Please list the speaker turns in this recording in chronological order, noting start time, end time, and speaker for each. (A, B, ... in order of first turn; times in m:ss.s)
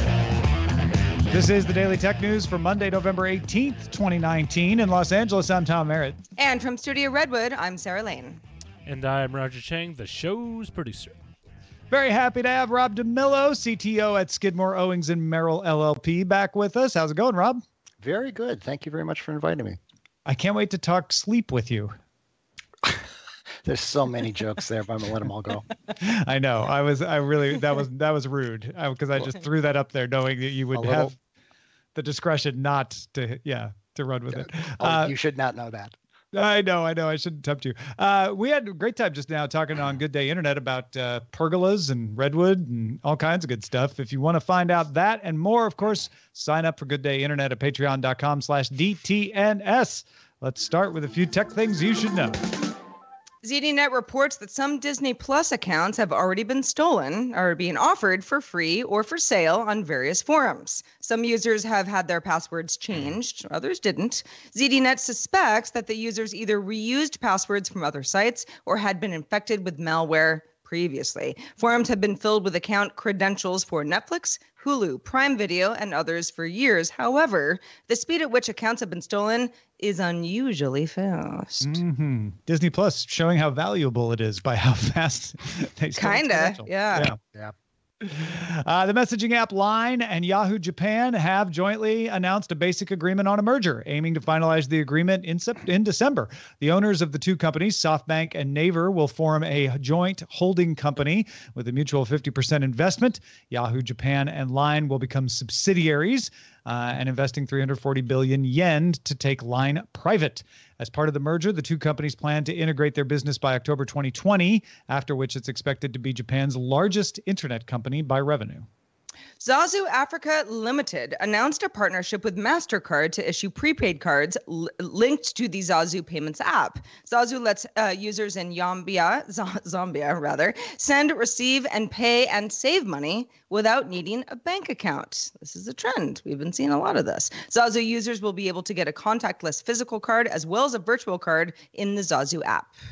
0:01.3-0:06.2 A
0:06.4-0:08.4 B
0:08.8-0:11.1 C
0:11.9-0:17.6 A
0:18.0-0:19.8 D
0:20.2-0:21.9 A
0:23.6-0:25.6 D
0:26.0-0:31.2 A
0:30.7-0:31.1 D
0:31.9-0:35.1 A
0:34.3-0:35.9 D
0:36.3-0:52.4 A
0:53.4-1:21.8 B
1:21.6-1:27.2 A
1:26.0-1:27.1 B
1:28.0-1:58.7 A
1:59.4-2:22.7 B